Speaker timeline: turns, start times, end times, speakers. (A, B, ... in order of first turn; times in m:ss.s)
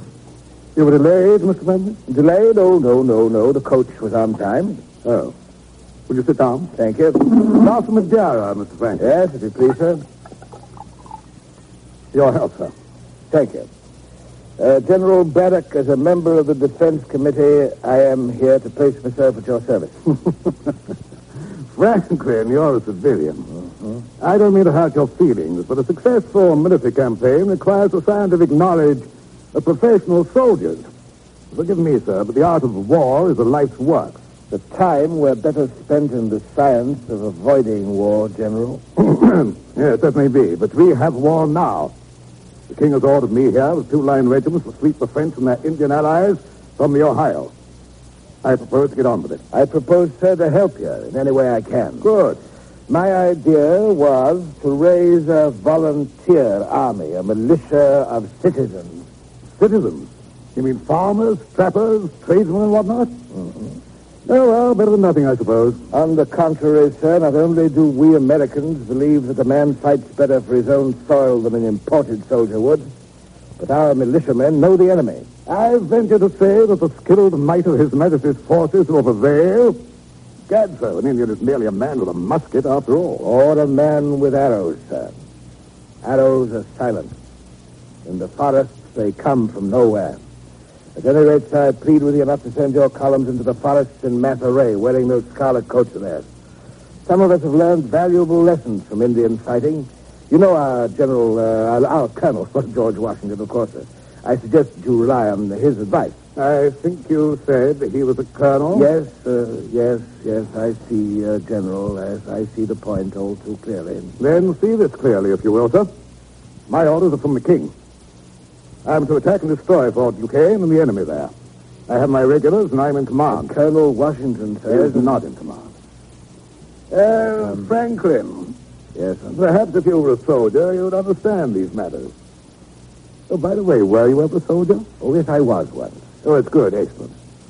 0:00.8-0:02.0 A
0:02.1-0:05.0 B
0:05.0-0:05.3 A
0:06.1-0:06.7 A
0:06.8-0:07.3 B
0:07.4-0:09.1 A
0:09.0-0:10.0 B
0:12.1-0:12.7 A
0:13.3-0:13.7 B
0:14.6-0:20.1 B
0:21.7-0:23.5 A
0:24.2-0:30.9 A
0:31.5-0:34.2 A
0:34.5-0:38.8 B
0:39.0-0:41.9 A
0:42.7-0:47.5 A
0:48.4-0:49.4 A
0:49.5-0:52.1 B
0:52.0-0:52.4 A
0:52.9-0:59.0 B
0:59.6-1:03.2 A
1:04.3-1:05.8 A
1:05.9-1:12.9 B
1:13.6-1:15.3 B
1:15.4-1:19.8 A
1:20.5-1:23.3 A
1:23.2-1:25.1 B
1:26.0-1:27.1 B
1:28.0-1:30.2 B
1:31.0-1:36.3 B
1:37.1-1:46.2 B
1:46.4-1:48.9 A
1:48.7-1:54.2 B
1:54.2-1:55.9 A
1:56.7-1:57.7 A
1:58.8-2:01.3 A
2:01.9-2:03.5 A
2:03.3-2:05.2 B
2:04.7-2:05.7 A
2:06.9-2:08.5 A
2:09.0-2:09.2 B
2:09.2-2:12.1 A
2:13.3-2:14.9 A
2:15.0-2:16.2 B
2:16.2-2:17.1 A